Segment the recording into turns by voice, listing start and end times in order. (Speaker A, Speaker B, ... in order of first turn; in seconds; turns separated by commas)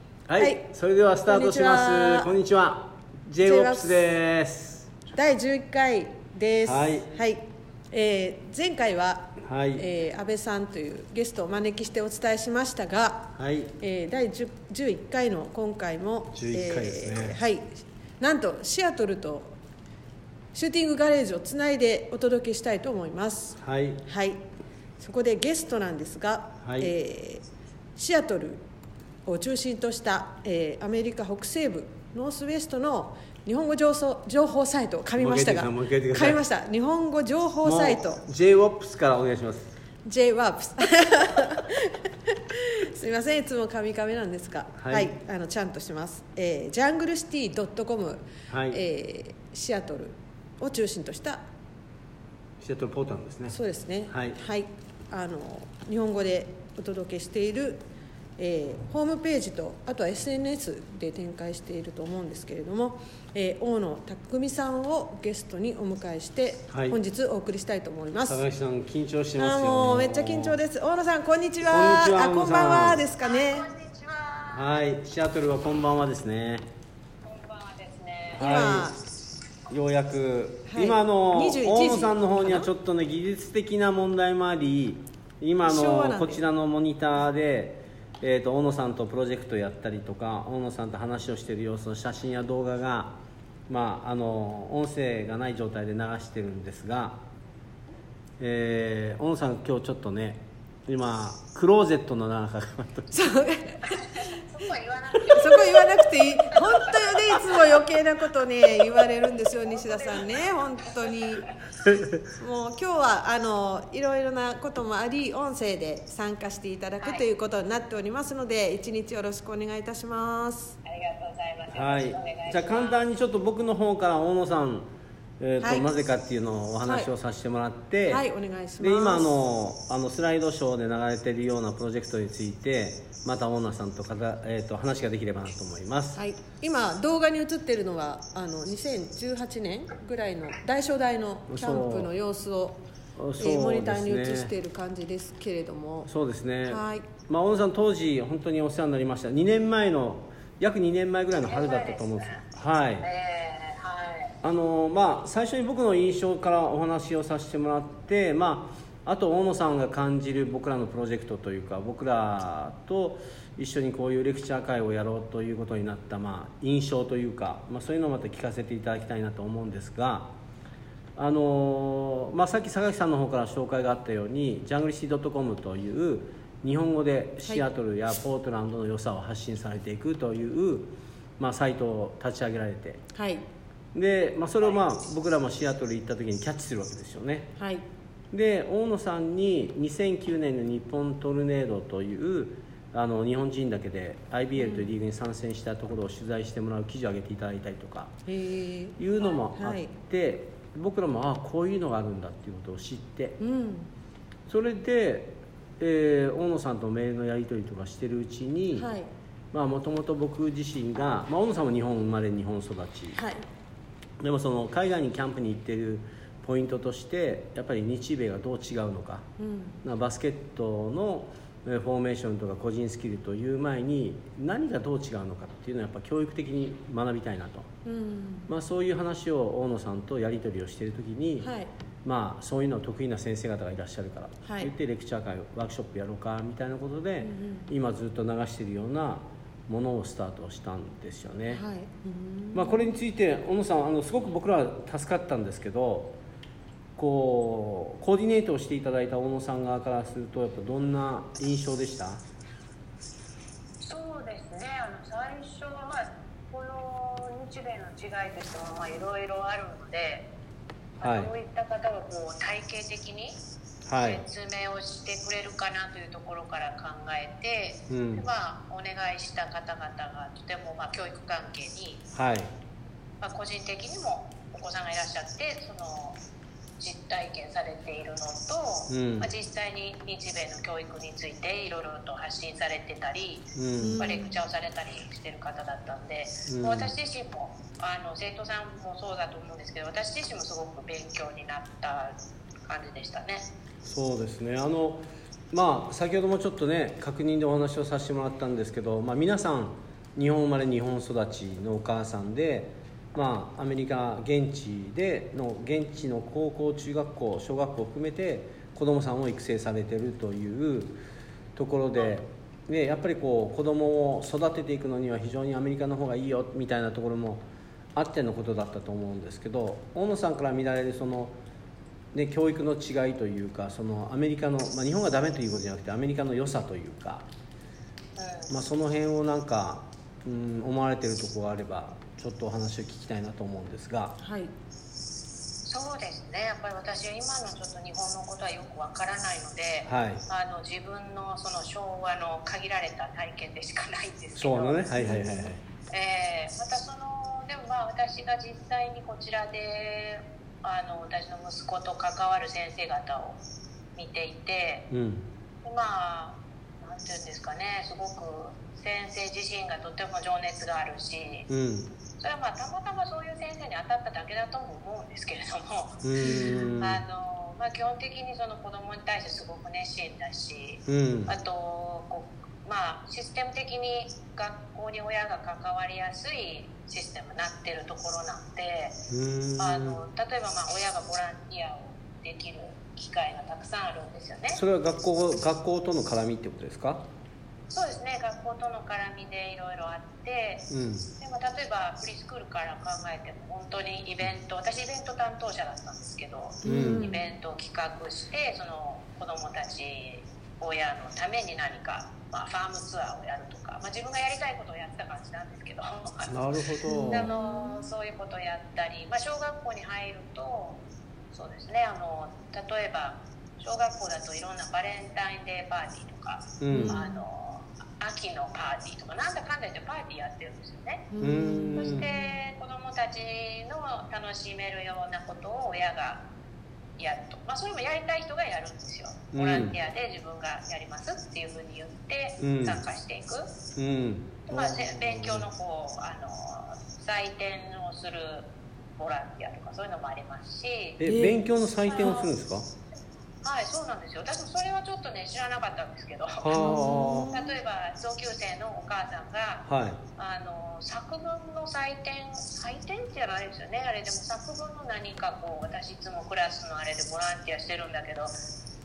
Speaker A: 0.3-4.9, Speaker B: 0.3-0.7, Speaker B: 1.2-2.3, Speaker B: 3.4-4.1, Speaker B: 5.1-19.6, Speaker A: 6.6-7.1, Speaker A: 9.4-9.8, Speaker A: 13.3-13.7, Speaker A: 16.3-17.4, Speaker B: 20.5-24.4, Speaker A: 23.6-24.0, Speaker B: 25.0-27.4, Speaker A: 26.6-26.9, Speaker B: 27.9-28.6, Speaker B: 29.2-38.2, Speaker A: 35.2-36.4, Speaker A: 37.6-39.7, Speaker B: 40.0-51.4, Speaker A: 44.8-45.1, Speaker A: 48.5-48.8, Speaker A: 52.6-53.6, Speaker B: 53.5-57.8, Speaker A: 54.1-54.4, Speaker B: 58.4-68.4, Speaker A: 66.7-67.0, Speaker A: 68.3-70.6, Speaker B: 69.4-73.7, Speaker A: 71.6-73.1, Speaker C: 73.2-74.8, Speaker A: 74.5-76.6, Speaker C: 77.2-78.5, Speaker A: 78.3-78.9, Speaker B: 78.3-79.0, Speaker A: 79.7-97.2, Speaker B: 80.7-82.7, Speaker B: 85.6-86.4, Speaker A: 98.4-103.4, Speaker B: 103.1-104.3, Speaker C: 103.9-107.7, Speaker B: 105.3-111.5, Speaker C: 108.8-111.5, Speaker A: 111.8-112.2, Speaker B: 112.3-120.8, Speaker C: 120.8-123.0, Speaker A: 121.7-124.9, Speaker A: 125.4-128.2, Speaker B: 125.6-125.9, Speaker B: 126.8-127.1, Speaker B: 128.1-129.3, Speaker A: 128.8-136.2, Speaker B: 136.2-142.8, Speaker A: 141.5-142.1, Speaker A: 143.2-144.5, Speaker B: 143.4-146.1, Speaker A: 146.1-153.1, Speaker B: 146.7-147.1, Speaker C: 151.4-152.4, Speaker C: 153.0-154.3, Speaker A: 154.4-170.3, Speaker A: 171.2-183.0, Speaker B: 183.1-183.4, Speaker A: 183.9-187.5, Speaker B: 187.6-187.8, Speaker A: 188.3-198.1, Speaker B: 194.6-194.9, Speaker B: 198.3-199.0, Speaker A: 199.0-203.4, Speaker B: 199.5-199.9, Speaker B: 203.4-203.9, Speaker A: 204.5-208.9, Speaker B: 208.7-209.1, Speaker A: 209.5-213.2, Speaker B: 213.1-213.4, Speaker A: 214.2-219.3, Speaker B: 219.4-219.8, Speaker A: 219.8-227.7, Speaker B: 227.8-228.5, Speaker A: 228.5-231.5, Speaker B: 231.4-231.7, Speaker A: 232.0-241.6, Speaker B: 234.4-234.7, Speaker B: 237.2-237.7, Speaker B: 241.5-243.0, Speaker A: 242.5-246.2, Speaker A: 247.0-252.2, Speaker C: 253.8-260.3, Speaker A: 261.0-261.3, Speaker C: 261.0-263.4, Speaker A: 263.9-264.2, Speaker C: 264.0-272.1, Speaker A: 267.9-268.3, Speaker A: 272.1-272.5, Speaker C: 273.2-276.2, Speaker C: 276.8-293.5, Speaker A: 278.9-279.3, Speaker A: 283.5-284.1, Speaker B: 283.8-284.4, Speaker A: 286.5-286.9, Speaker A: 293.8-311.0, Speaker A: 311.5-321.4, Speaker A: 322.1-327.3, Speaker C: 328.2-328.5, Speaker A: 328.5-334.2, Speaker B: 334.2-334.5, Speaker C: 335.6-345.0, Speaker A: 339.9-340.2, Speaker A: 344.4-345.6, Speaker B: 345.0-345.5, Speaker C: 345.9-353.4, Speaker C: 353.9-354.9, Speaker A: 354.9-355.3, Speaker C: 355.6-361.5, Speaker A: 361.5-361.9, Speaker C: 362.2-379.0, Speaker A: 366.0-367.0, Speaker B: 366.2-366.8, Speaker A: 370.9-371.3, Speaker A: 379.1-380.0, Speaker C: 379.6-384.6, Speaker A: 384.5-387.1, Speaker C: 387.7-390.7, Speaker A: 390.7-391.1, Speaker C: 391.2-410.8, Speaker B: 396.6-397.2, Speaker A: 396.6-397.2, Speaker A: 406.2-407.3, Speaker B: 406.8-407.9, Speaker C: 411.3-421.1, Speaker A: 416.6-417.0, Speaker B: 416.7-417.2, Speaker B: 421.1-422.3, Speaker A: 421.2-422.1, Speaker C: 421.8-426.2, Speaker C: 427.0-433.5, Speaker A: 429.3-429.8, Speaker A: 432.4-432.8, Speaker A: 433.7-435.5, Speaker C: 434.4-441.0, Speaker A: 441.0-442.7, Speaker B: 441.0-441.4, Speaker C: 441.8-442.3, Speaker C: 443.4-458.3, Speaker A: 446.4-447.4, Speaker B: 446.5-447.5, Speaker A: 449.6-450.0